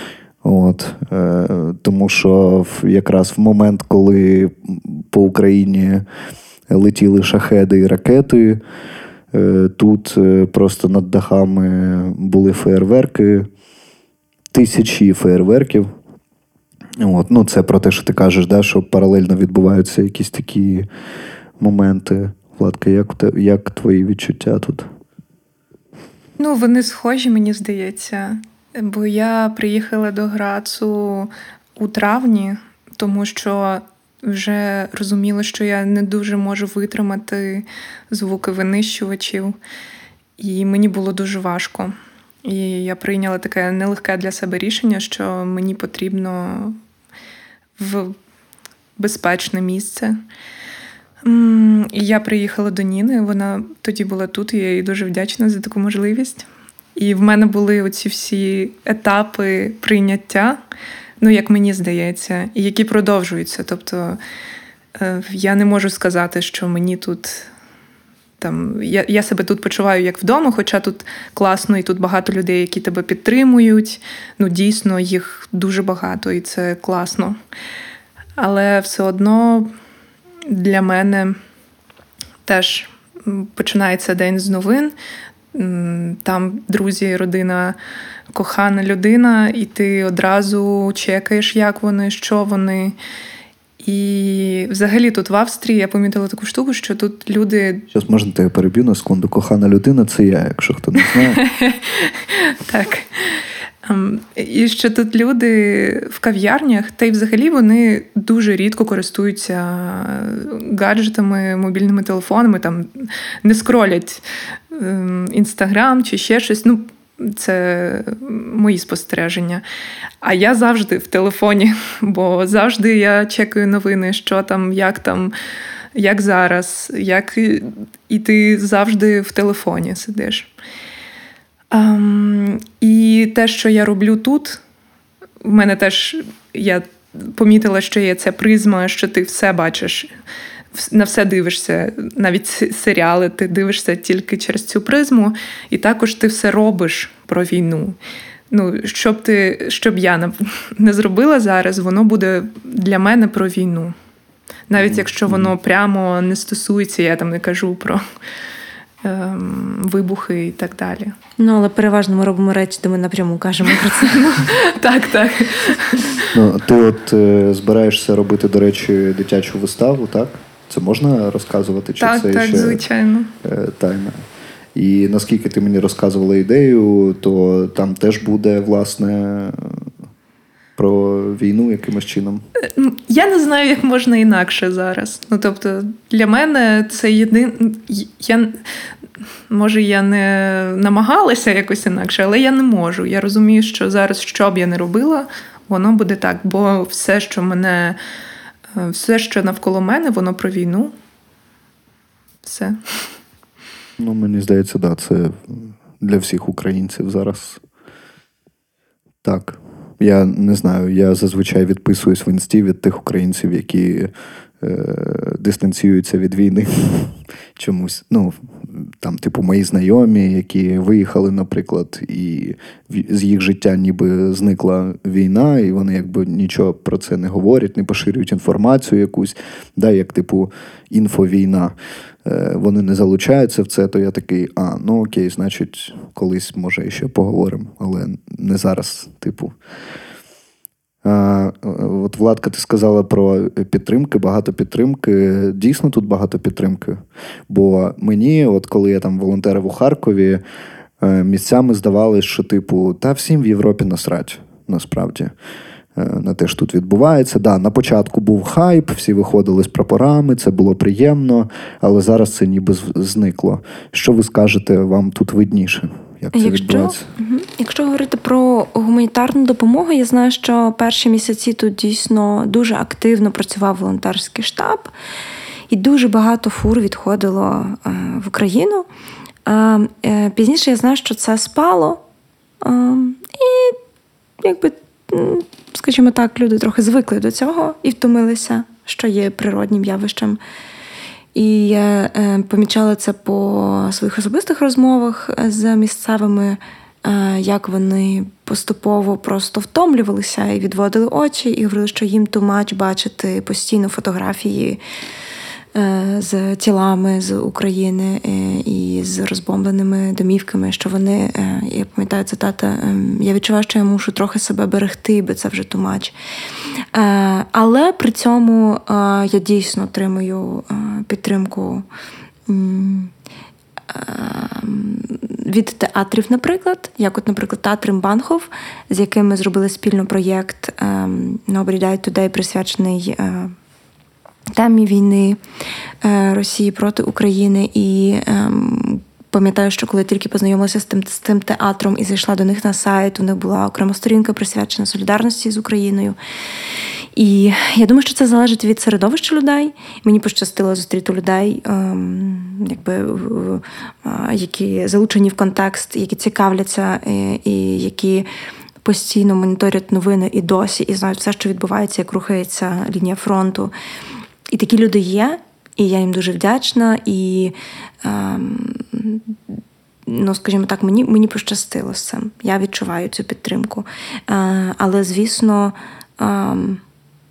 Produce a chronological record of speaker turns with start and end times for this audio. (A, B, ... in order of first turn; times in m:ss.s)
0:00.4-0:06.0 A
0:06.7-0:08.6 A
0:09.3-0:13.5 A
0:14.5-0:15.9 A
0:17.0-0:20.9 A
0:21.6-0:24.9 A
0:26.4-0:39.6 B
0:40.4-0:46.8 B
0:47.8-0:48.2 B
0:49.0-0:50.2 B
0:51.2-1:00.6 B
1:01.2-1:04.2 B
1:05.0-1:07.5 B
1:08.4-1:17.4 B
1:18.4-1:19.7 B
1:20.4-1:21.4 B
1:22.4-1:24.9 B
1:25.5-1:27.8 B
1:28.3-1:33.0 B
1:33.8-1:37.9 B
1:37.9-1:41.4 A
1:41.2-1:43.2 B
1:43.8-1:59.6 B
2:00.2-2:05.3 B
2:05.9-2:10.5 B
2:11.7-2:14.6 B
2:15.4-2:20.1 B
2:20.7-2:28.0 B
2:28.5-2:33.9 B
2:34.7-2:38.0 B
2:34.8-2:35.5 A
2:39.0-2:41.2 B
2:41.4-2:44.5 C
2:44.1-2:46.3 B
2:46.3-2:52.8 A
2:52.0-2:53.3 B
2:53.4-2:59.9 A
3:00.8-3:02.4 A
3:02.6-3:08.6 B
3:09.5-3:18.0 B
3:18.7-3:20.9 B
3:22.4-3:23.0 B
3:24.0-3:27.6 A
3:29.2-3:51.7 A
3:52.2-3:59.5 A
4:01.0-4:10.4 A
4:11.0-4:15.3 A
4:16.0-4:27.0 A
4:26.3-4:34.9 C
4:35.7-4:38.9 C
4:39.4-4:42.0 C
4:42.6-4:43.8 C
4:44.4-4:50.4 C
4:51.3-5:04.8 C
5:05.7-5:16.1 C
5:16.9-5:21.8 C
5:22.5-5:23.1 C
5:23.9-5:33.5 C
5:34.6-5:35.4 C
5:36.0-5:46.2 C
5:47.1-5:58.3 C
5:58.8-6:03.7 C
6:04.5-6:09.4 C
6:10.0-6:16.8 C